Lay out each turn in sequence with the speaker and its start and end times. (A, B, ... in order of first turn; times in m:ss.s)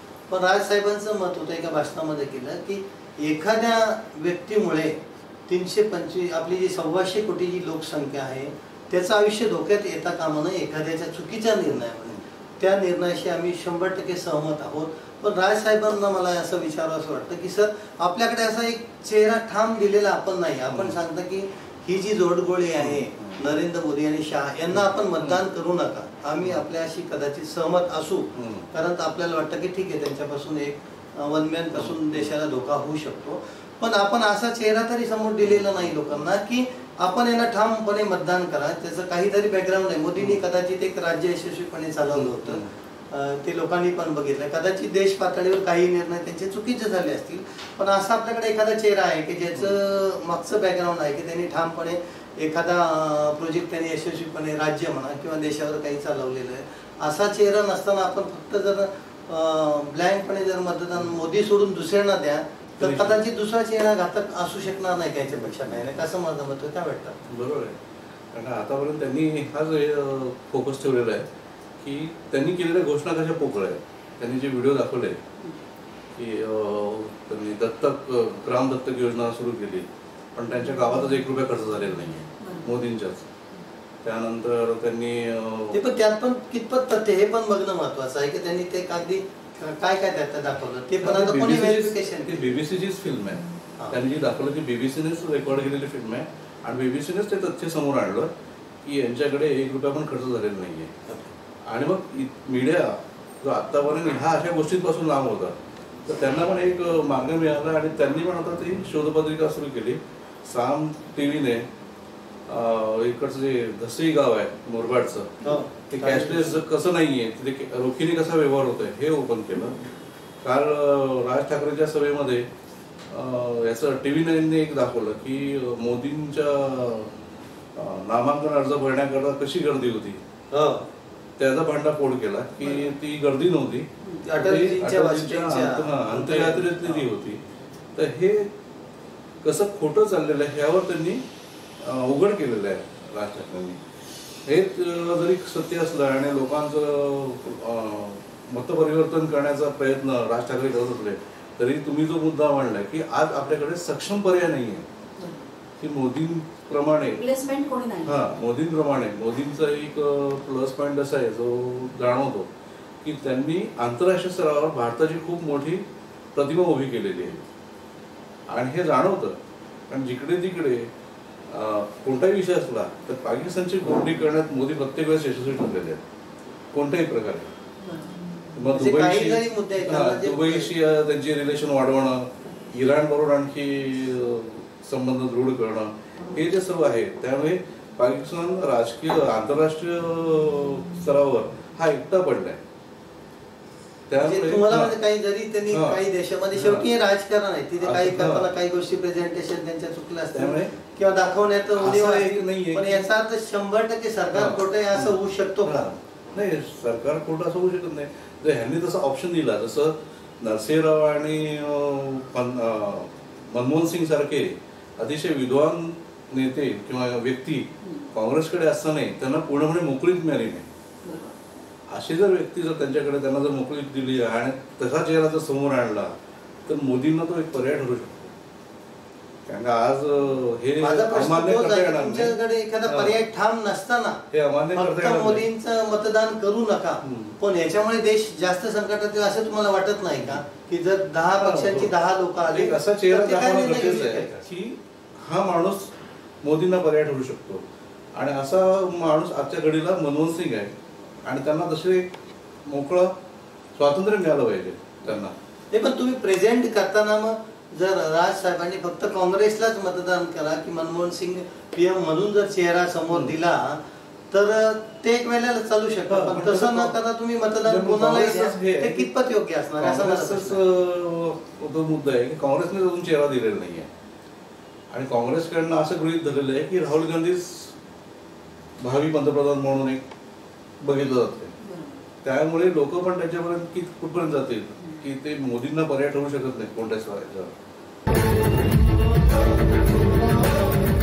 0:00.3-1:07.2 A
0:20.7-0:21.0 B
0:22.8-0:23.4 B
0:24.7-0:25.4 B
0:28.4-0:28.7 B
0:31.7-0:32.3 B
0:35.4-0:36.3 B
0:40.2-0:40.4 B
0:42.1-0:42.7 B
1:02.8-1:03.2 B
1:05.3-1:05.9 B
1:07.3-1:07.8 B
1:08.3-1:11.2 B
1:11.8-1:15.2 B
1:16.2-1:23.3 B
1:22.4-1:22.8 C
1:24.0-1:25.8 B
1:25.7-1:32.6 A
1:31.0-1:38.3 B
1:38.8-1:40.9 B
1:41.7-1:51.6 B
1:52.5-1:55.4 B
1:55.4-1:56.6 A
1:55.9-1:59.8 B
2:00.4-2:02.4 B
2:03.1-2:07.1 B
2:07.8-2:10.2 B
2:10.5-2:10.8 A
2:11.4-2:17.4 B
2:14.2-2:17.0 A
2:17.9-2:18.5 B
2:19.4-2:21.2 B
2:21.8-2:23.8 B
2:24.4-2:34.8 B
2:35.2-2:35.5 C
2:35.8-2:37.2 B
2:37.2-2:38.2 C
2:38.0-2:42.5 B
2:43.0-2:47.4 B
2:48.5-2:49.4 B
2:49.9-2:50.9 B
2:51.5-2:56.0 B
2:56.7-2:57.5 B
2:57.8-2:58.4 C
2:58.5-3:12.6 B
2:58.7-3:00.7 A
3:14.1-3:15.0 B
3:14.2-3:25.7 A
3:15.7-3:16.0 B
3:16.5-3:16.8 B
3:17.8-3:18.5 B
3:20.3-3:20.7 B
3:21.8-3:23.1 B
3:24.3-3:40.6 B
3:37.8-3:38.1 C
3:41.0-3:41.4 C
3:41.9-3:46.1 B
3:46.6-3:48.3 B
3:49.4-3:53.2 B
3:50.8-3:54.2 A
3:54.3-3:55.4 B
3:54.7-4:04.4 A
3:57.0-3:57.4 B
4:00.2-4:00.4 B
4:01.3-4:01.9 B
4:02.4-4:05.9 B
4:06.4-4:07.6 B
4:08.2-4:10.7 B
4:11.2-4:12.1 B
4:12.6-4:13.1 B
4:13.8-4:15.3 B
4:15.7-4:23.8 A
4:23.1-4:23.3 B
4:24.3-4:30.6 A
4:26.1-4:26.9 B
4:27.6-4:29.1 B
4:29.8-4:33.9 B
4:34.9-4:37.7 B
4:38.8-4:40.0 B
4:40.8-4:41.5 B
4:41.6-4:42.0 C
4:42.2-4:47.5 B